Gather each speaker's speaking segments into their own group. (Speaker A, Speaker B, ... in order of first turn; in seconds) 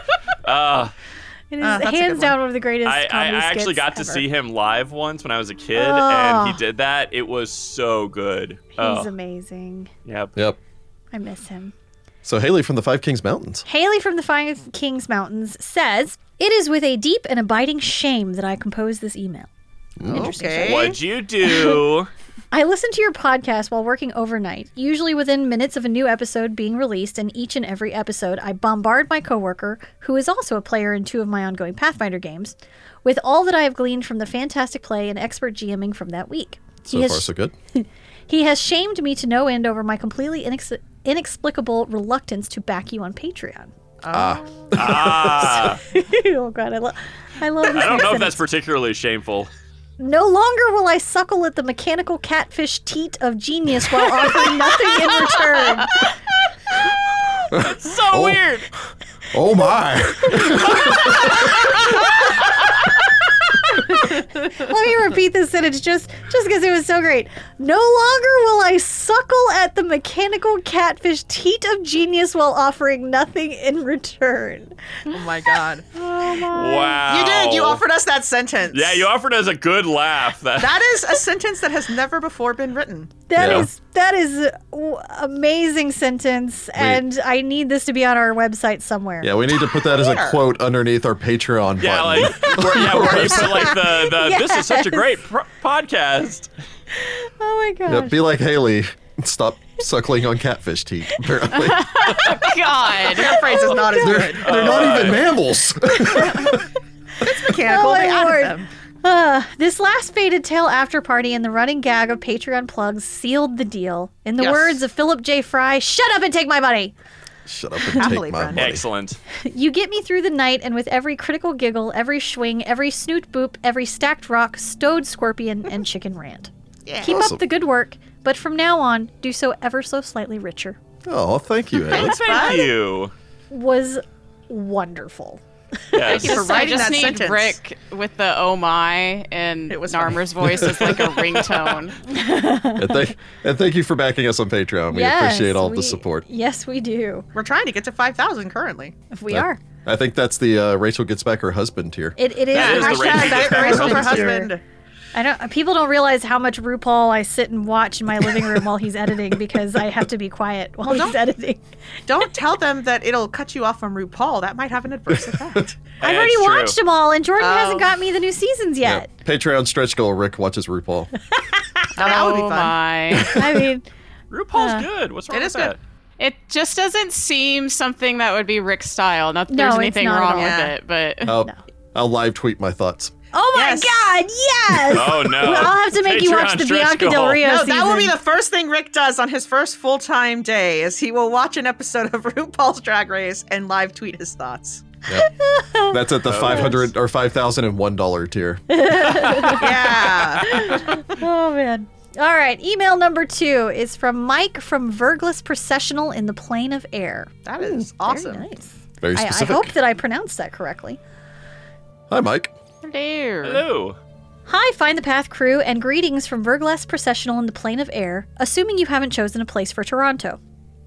Speaker A: 0.4-0.9, 2.8-9.1, 10.0-10.3, 20.6-22.1, 44.7-45.8, 47.7-49.5, 57.5-58.7, 60.4-62.6, 76.5-77.8, 78.7-81.0, 91.8-96.5, 104.4-105.2, 118.5-119.2, 131.8-133.1, 135.9-136.5, 152.5-154.4, 166.0-166.8, 174.3-175.8, 184.9-187.4, 196.2-196.9, 199.3-199.6, 213.4-214.0
Speaker B: 1.5-4.2, 5.8-6.6, 8.8-9.9, 11.1-11.7, 13.7-19.5, 20.1-20.9, 21.4-21.8, 22.5-32.5, 33.0-43.7, 45.9-48.4, 50.0-56.1, 63.7-74.7, 76.1-76.7, 83.3-89.3, 92.4-95.1, 96.9-98.2, 103.3-104.3, 106.0-106.7, 107.6-116.9, 119.4-130.8, 133.5-136.1, 142.1-143.1, 144.9-147.2, 149.1-149.6, 152.2-154.5, 155.1-161.6, 166.0-169.1, 173.3-173.9, 174.5-174.9, 179.5-180.7, 183.3-188.2, 195.1-196.0, 198.7-199.7, 200.4-211.0, 214.5-220.4
Speaker C: 1.6-2.4, 20.1-21.0, 44.0-44.7, 75.1-79.1, 80.6-83.1, 89.5-90.4, 92.8-93.8, 103.0-105.1, 107.2-108.7, 114.4-114.8, 117.9-118.8, 126.8-127.2, 131.9-132.7, 136.1-137.6, 139.7-141.3, 147.3-148.9, 152.5-154.6, 160.9-161.2, 162.1-165.8, 167.4-167.9, 171.9-172.8, 175.3-175.7, 180.3-180.7, 183.5-184.0, 187.4-194.8, 199.5-201.1, 207.4-208.4
Speaker D: 12.2-13.6, 20.0-20.3, 36.9-37.5, 44.1-45.8, 57.5-58.4, 59.3-62.1, 83.3-83.7, 86.8-87.0, 89.2-93.7, 97.9-102.3, 103.9-106.6, 117.5-118.8, 127.0-127.4, 131.0-132.2, 140.4-140.7, 142.8-146.2, 149.3-152.2, 168.8-171.1, 173.1-173.4, 181.2-183.1, 195.9-199.0, 209.0-209.7, 212.1-212.5
Speaker E: 101.5-103.5, 136.1-142.0, 172.0-173.4, 176.2-181.4, 212.8-213.6